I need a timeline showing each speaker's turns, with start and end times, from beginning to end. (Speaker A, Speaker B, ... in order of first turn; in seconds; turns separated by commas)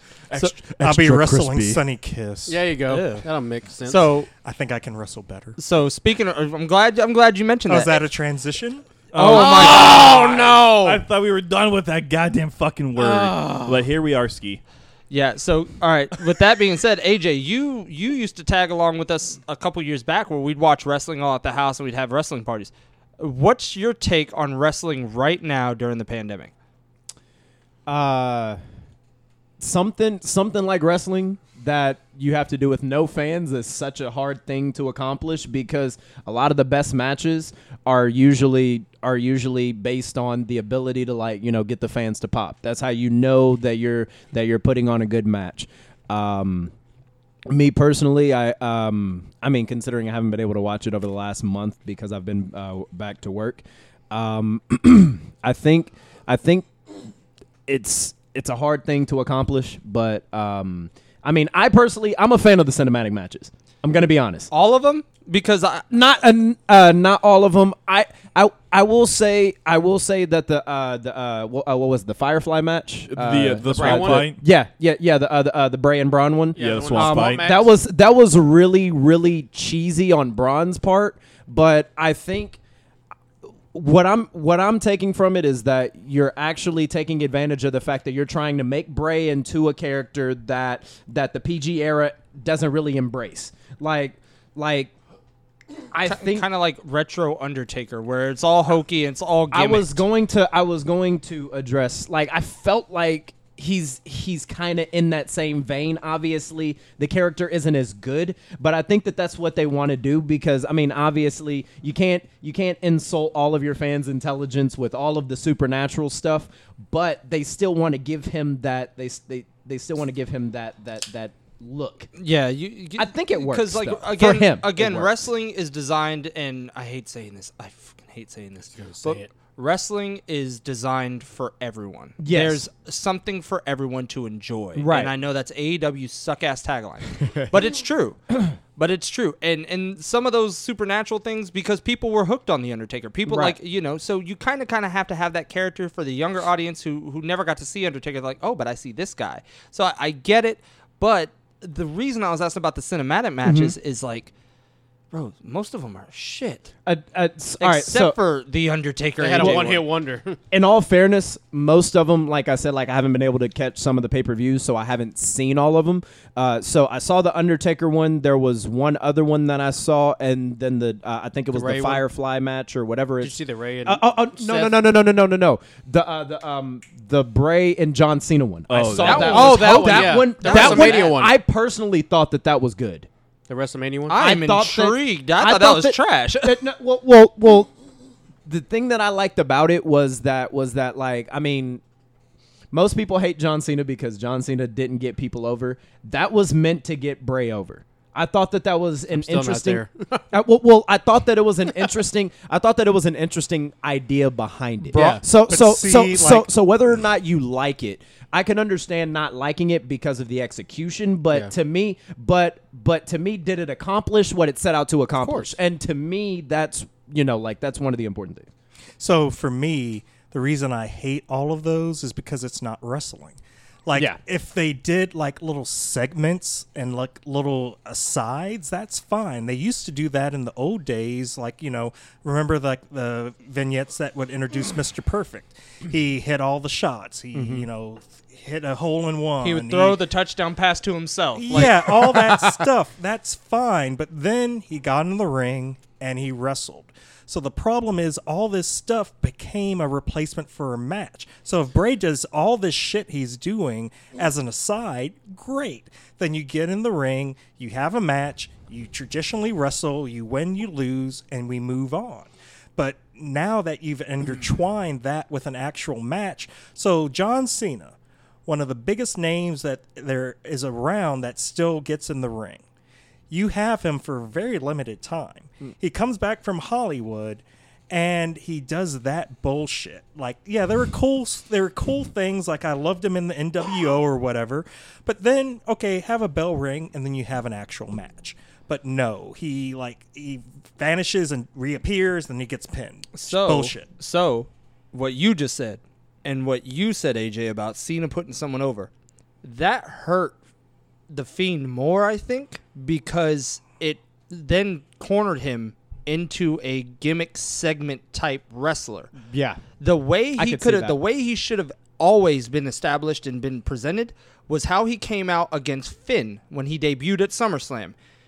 Speaker A: 0.3-2.6, Speaker B: 0.3-1.8, Speaker C: 2.5-4.1, Speaker D: 2.9-3.2, Speaker D: 3.8-4.3, Speaker A: 4.3-5.6, Speaker D: 5.6-8.0, Speaker A: 7.7-8.9, Speaker D: 9.1-10.1, Speaker B: 9.1-14.6, Speaker C: 9.2-11.0, Speaker C: 13.0-13.8, Speaker D: 15.1-26.5, Speaker E: 27.9-28.6, Speaker E: 29.6-46.7, Speaker E: 47.5-56.7, Speaker E: 57.6-64.5, Speaker D: 64.5-65.8, Speaker E: 65.9-82.6, Speaker B: 73.1-74.4, Speaker C: 73.7-74.3, Speaker C: 76.5-77.7, Speaker B: 76.5-77.5, Speaker E: 83.7-94.9, Speaker E: 95.9-96.5, Speaker D: 96.0-100.0, Speaker E: 99.5-122.1, Speaker D: 122.2-138.2, Speaker E: 123.0-125.3, Speaker C: 128.7-129.3, Speaker E: 132.2-132.7, Speaker E: 134.8-135.1, Speaker D: 138.8-154.3, Speaker E: 143.2-143.6, Speaker E: 153.4-153.8, Speaker D: 155.1-156.7, Speaker E: 156.8-158.2, Speaker D: 157.6-159.8, Speaker C: 159.2-160.4, Speaker E: 159.4-159.7, Speaker E: 160.5-183.1, Speaker C: 171.5-172.0, Speaker C: 173.2-174.8, Speaker B: 178.7-179.6, Speaker C: 178.9-181.3, Speaker D: 179.0-181.1, Speaker C: 183.5-184.2, Speaker D: 184.1-186.6, Speaker E: 184.1-187.7, Speaker E: 188.4-191.8, Speaker E: 192.7-218.5, Speaker C: 199.1-200.2, Speaker C: 204.9-205.2, Speaker A: 204.9-206.5, Speaker C: 215.2-215.5, Speaker A: 219.0-240.0, Speaker E: 223.9-224.2, Speaker E: 237.3-237.7, Speaker D: 239.4-242.2, Speaker A: 241.3-272.6, Speaker A: 273.3-293.9, Speaker D: 293.1-298.9, Speaker D: 299.4-300.4, Speaker D: 301.1-309.1, Speaker E: 309.2-309.6, Speaker D: 309.8-317.9, Speaker E: 310.4-311.0